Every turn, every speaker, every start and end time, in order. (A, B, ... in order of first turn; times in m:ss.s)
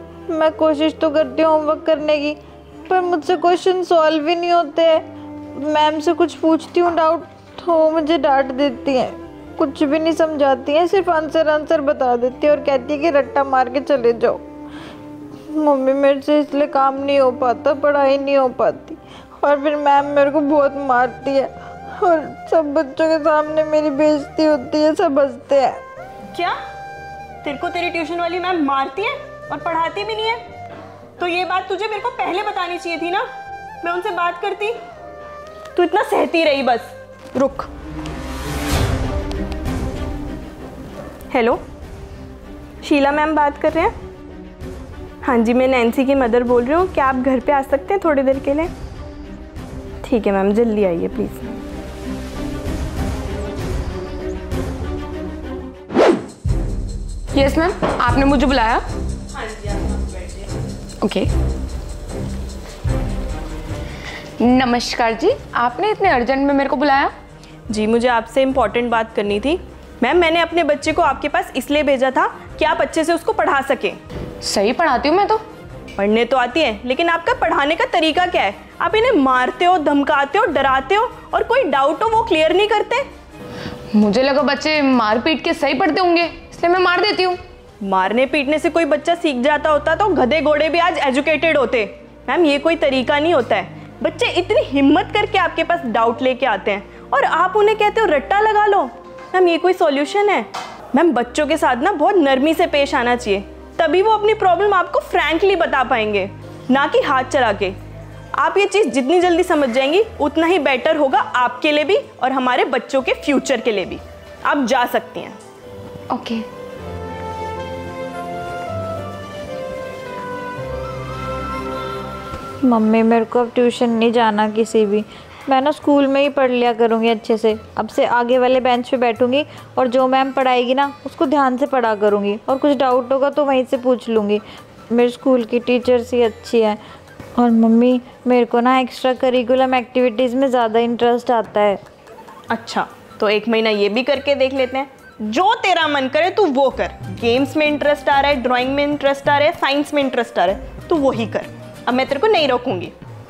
0:00.3-0:14.4 A
0:15.5-0:25.8 A
0:26.3-0:26.6 B
0:27.4-0:30.4 B
0:31.2-0:33.3 B
0:33.8-0:34.8 B
0:35.8-0:37.7 B
0:41.3-0:41.6 B
0:42.8-0:43.9 B
0:45.2-0:48.7 B
0:50.0-0:51.5 B
0:57.3-0:58.8 C
0:59.3-1:00.5 B
1:01.0-1:01.3 C
1:04.4-1:07.1 C
1:07.7-1:14.0 B
1:14.4-1:15.4 C
1:16.0-1:23.1 B
1:23.9-1:27.4 C
1:27.8-1:47.8 B
1:48.4-1:55.4 B
1:56.1-1:56.4 C
2:02.6-2:16.8 A
2:17.4-2:21.8 A
2:22.5-2:32.9 B